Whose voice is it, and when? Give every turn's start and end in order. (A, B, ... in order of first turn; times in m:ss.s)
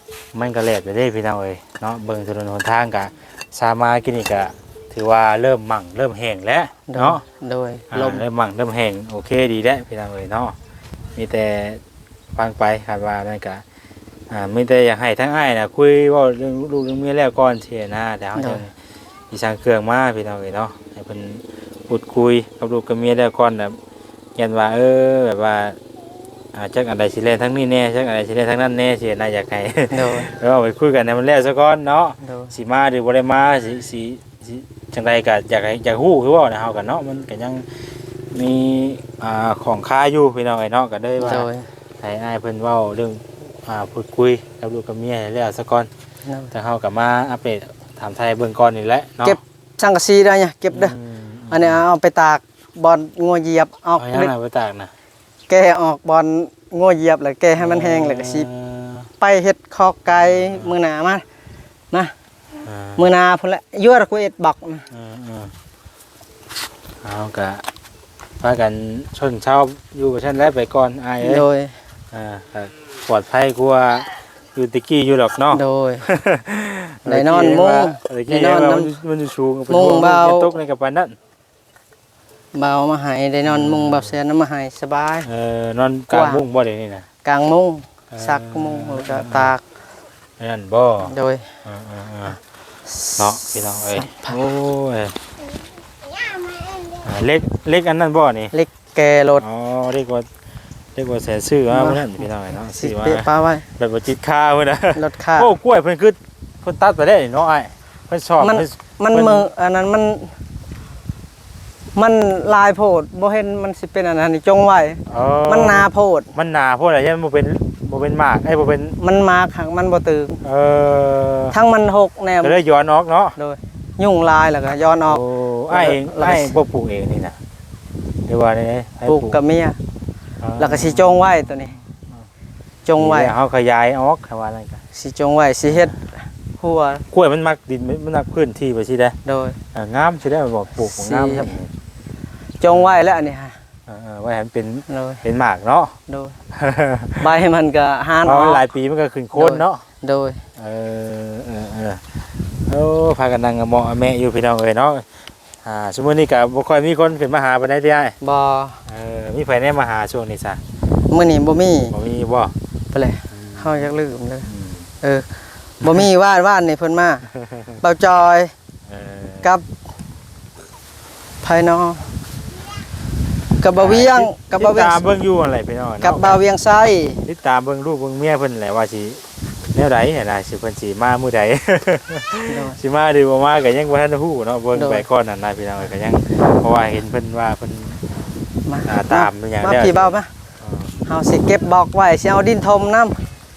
0:00.3-0:07.2 A
0:06.9-0:08.2 B
0:07.9-0:10.6 A
0:11.2-0:11.8 A
0:12.4-0:13.6 A
0:14.3-0:18.7 A
0:18.4-0:18.6 B
0:19.3-0:23.8 A
0:24.4-0:25.8 A
0:26.5-0:37.7 A
0:29.9-0:30.3 B
0:32.2-0:32.5 B
0:38.3-0:45.9 A
0:41.2-0:41.7 B
0:46.2-0:46.5 B
0:46.5-0:49.4 A
0:49.2-0:51.0 B
0:50.7-0:51.8 A
0:51.5-0:54.3 B
0:54.0-0:54.9 A
0:55.5-0:58.5 B
0:57.6-0:59.1 A
0:59.2-1:01.2 B
1:00.1-1:00.8 A
1:02.6-1:03.0 A
1:03.0-1:04.9 B
1:04.9-1:05.5 A
1:07.0-1:07.6 A
1:08.4-1:11.4 A
1:11.2-1:11.8 B
1:12.1-1:21.2 A
1:15.5-1:16.1 B
1:17.1-1:18.9 B
1:19.7-1:20.6 B
1:22.5-1:25.3 B
1:23.4-1:24.1 A
1:25.3-1:27.1 A
1:26.1-1:26.4 B
1:27.2-1:29.6 B
1:28.1-1:29.5 A
1:30.4-1:32.4 A
1:31.0-1:31.5 B
1:32.9-1:34.4 B
1:33.2-1:35.2 A
1:37.0-1:38.5 A
1:38.5-1:39.4 B
1:39.4-1:40.3 A
1:41.0-1:49.5 A
1:41.7-1:42.1 B
1:42.7-1:43.7 B
1:45.0-1:45.5 B
1:48.4-1:50.3 B
1:52.0-1:56.3 B
1:55.1-1:59.0 A
1:59.0-2:00.4 B
2:00.4-2:01.6 A
2:01.5-2:02.6 B
2:02.4-2:03.4 A
2:03.4-2:06.6 B
2:05.0-2:07.4 A
2:08.3-2:09.4 A
2:09.1-2:09.8 B
2:10.4-2:11.4 A
2:10.6-2:11.8 B
2:12.9-2:13.3 B
2:13.0-2:14.8 A
2:14.9-2:17.0 B
2:15.7-2:15.9 A
2:17.1-2:19.2 A
2:19.2-2:19.6 B
2:19.7-2:21.7 A
2:20.8-2:21.6 B
2:22.6-2:23.6 B
2:22.7-2:23.2 A
2:23.9-2:26.0 A
2:24.9-2:25.2 B
2:26.1-2:26.4 B
2:26.5-2:27.3 A
2:27.2-2:28.7 B
2:28.2-2:29.8 A
2:29.4-2:30.4 B
2:30.6-2:32.0 A
2:32.7-2:35.1 A
2:35.6-2:38.2 A
2:38.2-2:38.8 B
2:38.9-2:40.6 A
2:41.1-2:41.9 B
2:41.9-2:42.6 A
2:42.9-2:44.5 B
2:43.3-2:43.9 A
2:44.5-2:44.9 A
2:45.0-2:47.3 B
2:45.8-2:46.1 A
2:47.4-2:47.8 A
2:47.8-2:48.5 B
2:48.9-2:49.5 A
2:51.4-2:52.1 B
2:53.6-2:55.0 B
2:53.8-2:56.4 A
2:56.0-2:57.2 B
2:57.3-2:59.2 A
2:59.7-3:08.0 A
3:02.5-3:02.8 B
3:04.8-3:05.0 B
3:08.7-3:10.3 B
3:08.8-3:10.9 A
3:11.1-3:13.2 B